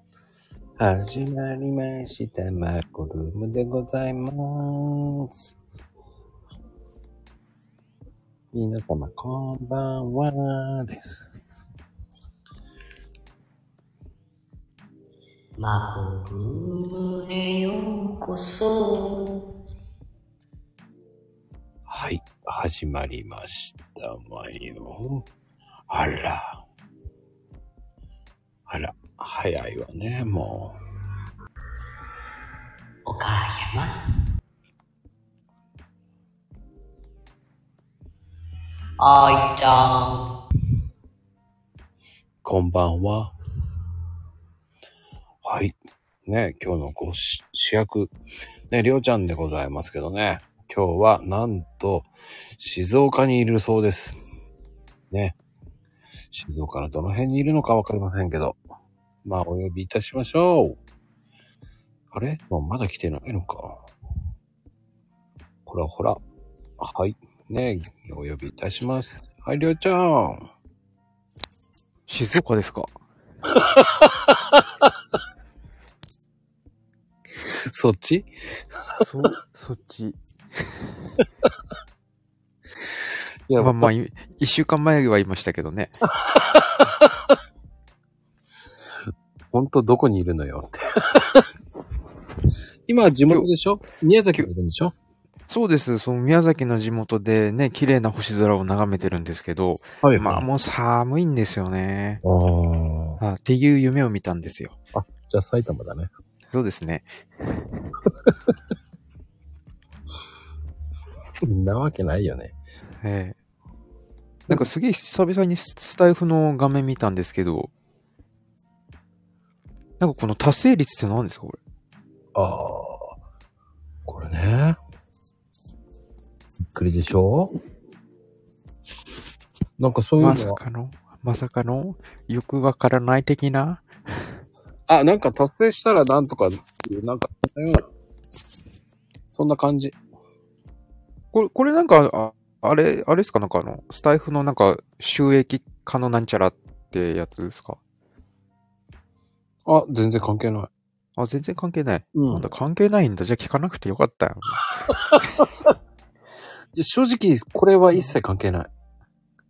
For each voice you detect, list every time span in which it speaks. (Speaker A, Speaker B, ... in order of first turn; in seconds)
Speaker A: 0.8-5.5, 8.5-11.2, 21.9-25.3, 25.9-26.6, 28.7-30.8, 42.4-43.3, 45.4-48.1, 48.7-54.2, 55.1-55.4, 56.3-58.6, 59.2-60.8, 62.1-63.9, 65.7-66.2, 66.8-70.5, 73.5-74.6, 77.7-78.3, 83.5-83.9, 86.2-87.2, 89.5-91.5, 92.9-94.9, 100.0-100.5, 102.2-103.2, 104.9-106.1, 111.4-112.5, 122.3-123.2, 124.1-124.8, 126.7-127.5, 129.8-130.6, 134.9-137.8, 139.3-140.0, 149.7-150.7, 152.2-152.5, 154.9-155.4, 156.7-158.7
Speaker B: 15.6-19.5, 33.1-34.0, 39.0-40.3
Speaker C: 72.1-72.9, 79.0-80.2, 83.6-85.9, 95.5-102.2, 103.2-104.8, 106.5-107.6, 113.0-113.4, 114.5-117.7, 120.0-121.6, 130.2-133.9, 141.3-147.8, 151.2-154.9